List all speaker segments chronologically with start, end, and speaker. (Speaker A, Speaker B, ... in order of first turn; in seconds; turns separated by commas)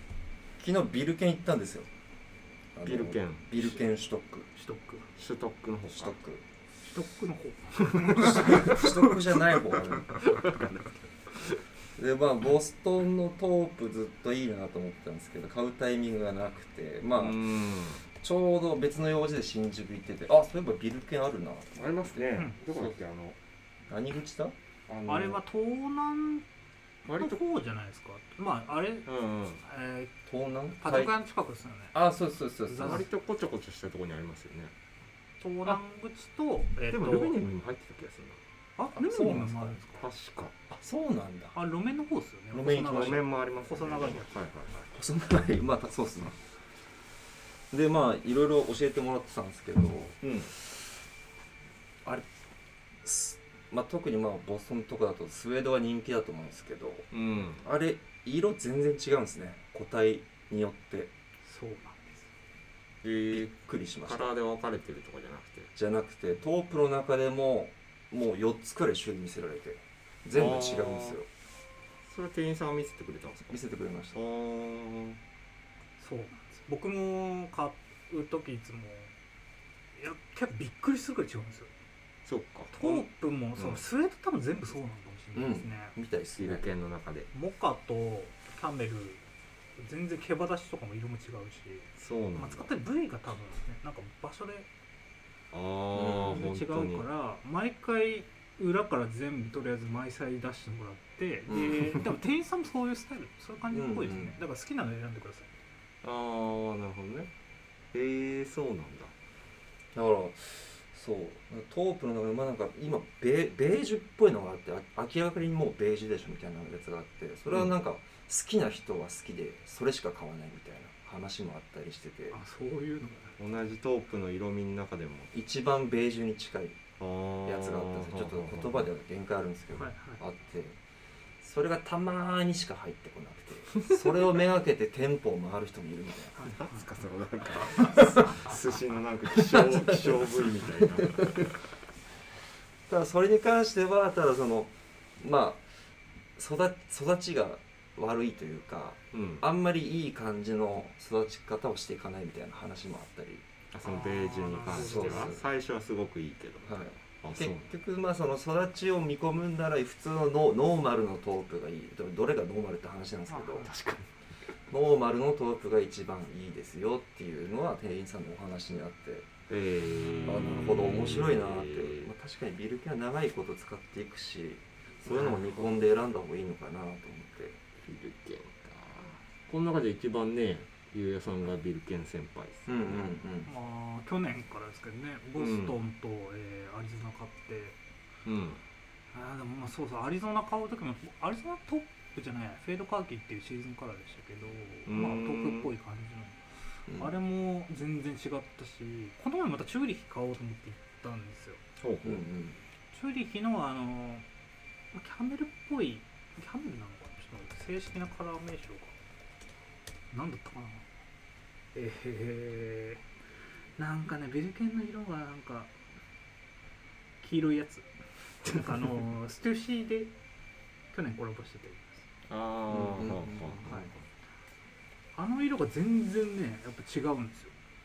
Speaker A: 0.6-1.9, Speaker A: 2.8-4.5, Speaker B: 2.8-3.5, Speaker C: 4.5-5.1, Speaker B: 5.2-6.1, Speaker A: 5.9-6.4, Speaker C: 6.8-9.4, Speaker A: 8.1-10.3, Speaker B: 10.2-10.6, Speaker A: 11.9-17.4, Speaker B: 17.1-18.0, Speaker A: 18.1-21.9, Speaker B: 21.7-23.4, Speaker A: 23.9-24.5, Speaker B: 24.9-25.4, Speaker C: 25.1-26.5, Speaker C: 27.1-30.1, Speaker B: 27.1-27.4, Speaker B: 29.1-29.6, Speaker A: 30.2-31.1, Speaker C: 30.8-32.0, Speaker A: 31.9-33.0, Speaker C: 32.7-33.0, Speaker B: 32.7-34.7, Speaker C: 35.4-37.4, Speaker B: 36.9-38.4, Speaker C: 38.8-40.1, Speaker A: 39.0-39.8, Speaker B: 40.0-40.5, Speaker A: 40.7-41.6, Speaker C: 41.5-44.5, Speaker A: 42.5-43.2, Speaker B: 42.9-44.9, Speaker A: 44.9-46.4, Speaker A: 47.7-50.7, Speaker B: 50.2-50.5, Speaker A: 53.0-57.1, Speaker B: 57.1-57.6, Speaker A: 57.6-61.1, Speaker C: 61.4-62.3, Speaker B: 63.0-65.7, Speaker A: 63.3-64.3, Speaker A: 65.7-71.3, Speaker B: 70.3-71.2, Speaker B: 72.1-73.6, Speaker A: 73.5-74.2, Speaker B: 74.1-75.2, Speaker C: 76.0-79.1, Speaker C: 80.0-81.7, Speaker B: 82.2-83.8, Speaker C: 82.7-85.9, Speaker A: 85.3-86.7, Speaker B: 86.3-87.3, Speaker C: 87.3-89.2, Speaker C: 89.8-94.7, Speaker B: 92.0-92.7, Speaker B: 95.5-97.0, Speaker A: 95.9-96.5, Speaker C: 96.3-105.5, Speaker A: 101.5-102.0, Speaker A: 103.7-104.3, Speaker B: 106.0-107.3, Speaker B: 107.9-109.1, Speaker A: 109.9-122.4, Speaker C: 122.3-123.4, Speaker B: 123.4-125.3, Speaker A: 125.3-126.8, Speaker B: 127.0-128.9, Speaker A: 127.4-130.8, Speaker C: 129.8-130.2, Speaker A: 131.4-136.4, Speaker C: 136.4-136.8, Speaker B: 136.4-141.5, Speaker A: 139.5-140.1, Speaker A: 142.9-145.7, Speaker A: 146.4-153.4, Speaker B: 149.1-149.4, Speaker B: 153.7-157.7, Speaker C: 153.8-155.3, Speaker A: 154.7-155.4, Speaker A: 156.6-163.7, Speaker C: 163.3-164.0, Speaker B: 163.7-164.0, Speaker A: 164.7-169.3, Speaker B: 169.5-172.1, Speaker C: 169.9-170.4, Speaker A: 170.2-177.6, Speaker B: 175.0-175.8, Speaker B: 177.8-183.1, Speaker A: 182.7-183.5, Speaker C: 183.4-187.8, Speaker B: 185.4-185.8, Speaker B: 188.2-188.6, Speaker C: 189.1-201.6, Speaker B: 194.8-195.7, Speaker B: 201.8-202.2, Speaker A: 202.0-202.6, Speaker C: 202.9-204.2, Speaker C: 204.9-208.9, Speaker C: 210.1-210.9, Speaker C: 211.7-213.0, Speaker C: 213.8-215.7, Speaker C: 217.2-217.9, Speaker C: 218.4-220.1, Speaker C: 220.9-222.0, Speaker B: 222.3-223.9, Speaker A: 222.7-223.9, Speaker C: 225.1-227.5